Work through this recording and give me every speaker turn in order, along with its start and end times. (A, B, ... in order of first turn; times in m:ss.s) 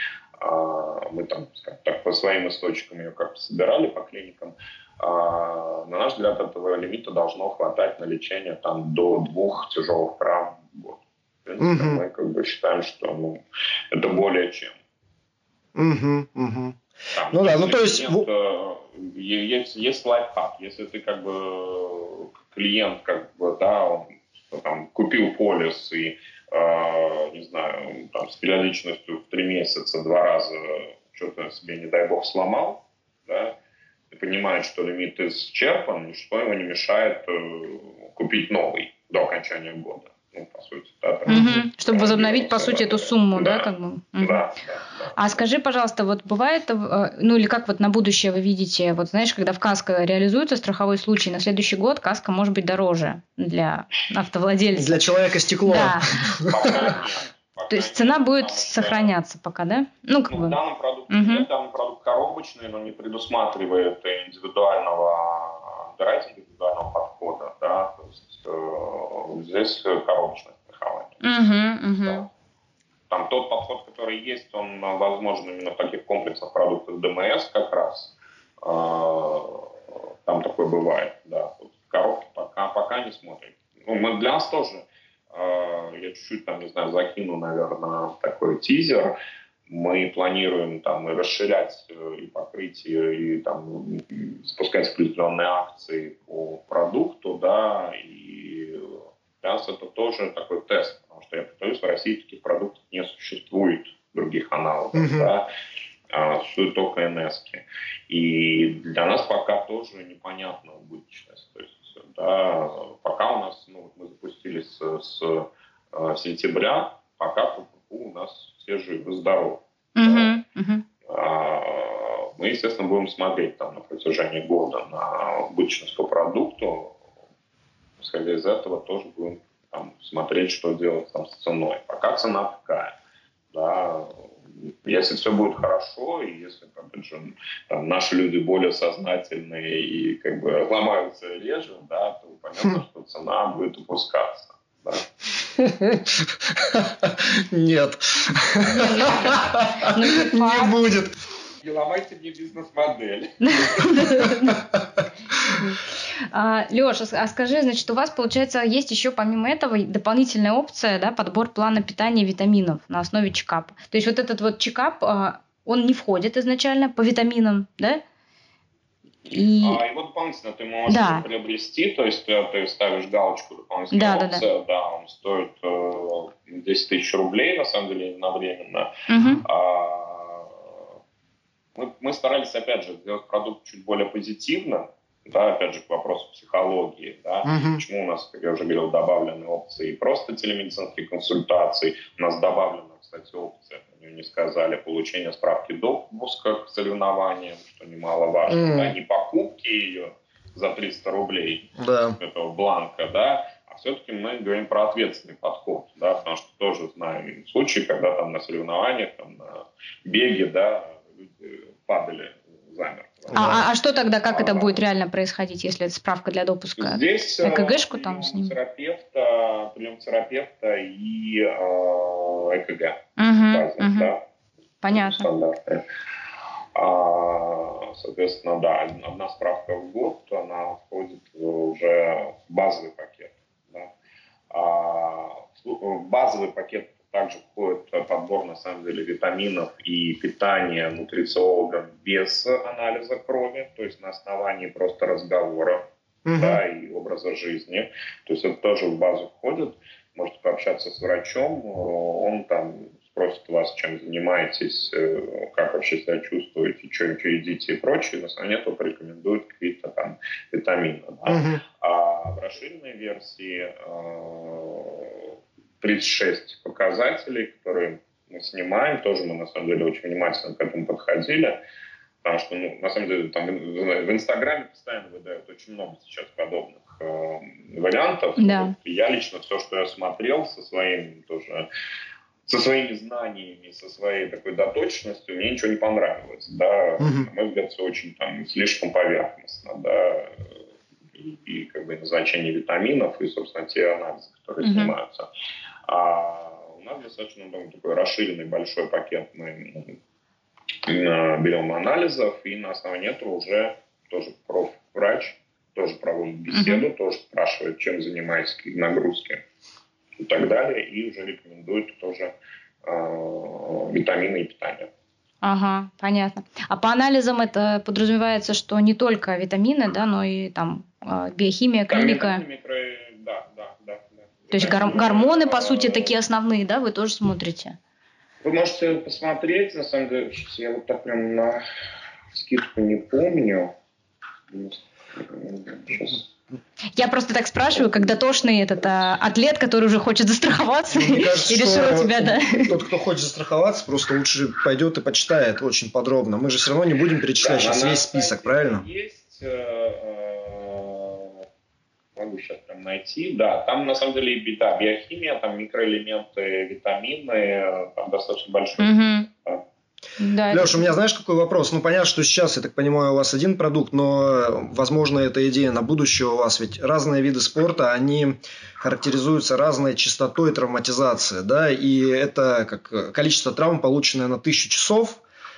0:00.4-0:13.4 A
0:11.6-0:12.0 B
0:13.9-0:14.8 A
0:15.8-0:16.8 B
0:17.1-0:33.6 A
0:17.3-0:18.3 B
0:34.1-0:45.2 A
0:41.3-0:41.6 B
0:41.3-0:44.4 C
0:45.2-0:55.0 C
0:54.7-0:57.0 B
0:55.6-0:56.2 C
0:56.5-0:59.1 A
0:57.7-1:00.6 C
1:00.3-1:11.2 A
1:01.1-1:01.5 C
1:11.2-1:12.3 C
1:13.1-1:19.7 A
1:20.2-1:29.1 A
1:29.7-1:45.5 A
1:44.9-1:45.3 B
1:46.1-2:00.4 A
2:00.0-2:00.8 C
2:01.1-2:07.0 A
2:08.0-2:13.0 A
2:13.5-2:14.3 A
2:14.8-2:25.1 A
2:25.6-2:31.1 B
2:28.6-2:30.8 C
2:31.6-2:34.2 A
2:33.4-2:34.6 C
2:36.3-2:48.0 C
2:49.3-2:49.8 C
2:49.6-2:58.9 A
2:50.9-2:51.2 C
2:53.9-2:54.5 C
2:59.1-2:59.4 C
2:59.4-3:00.6 A
3:01.8-3:33.6 A
3:07.4-3:07.8 B
3:18.5-3:19.0 B
3:21.8-3:22.2 B
3:33.3-3:33.6 B
3:33.3-3:38.6 C
3:34.2-3:34.8 A
3:36.8-3:44.2 A
3:43.2-3:44.1 C
3:44.8-3:45.3 C
3:44.9-3:45.8 A
3:46.8-3:53.9 A
3:54.5-4:05.8 A
4:06.3-4:06.6 B
4:06.4-4:31.6 A
4:21.3-4:21.6 B
4:32.2-4:41.6 A
4:38.4-4:38.7 C
4:42.5-4:50.5 A
4:47.0-4:47.3 B
4:51.1-4:55.3 A
4:54.6-4:54.9 C
4:55.9-5:00.0 A
5:00.9-5:09.4 A
5:06.5-5:06.8 C
5:10.2-5:12.3 A
5:12.8-5:14.9 A
5:15.4-5:22.4 C
5:21.9-5:26.1 A
5:24.5-5:27.8 C
5:28.4-5:31.6 A
5:32.3-5:33.7 A
5:34.5-5:36.2 A
5:37.0-5:42.8 C
5:37.8-5:38.2 A
5:40.9-5:48.8 B
5:47.4-5:51.4 A
5:52.2-5:59.6 A
5:58.8-5:59.3 C
6:00.2-6:01.0 C
6:00.5-6:15.2 B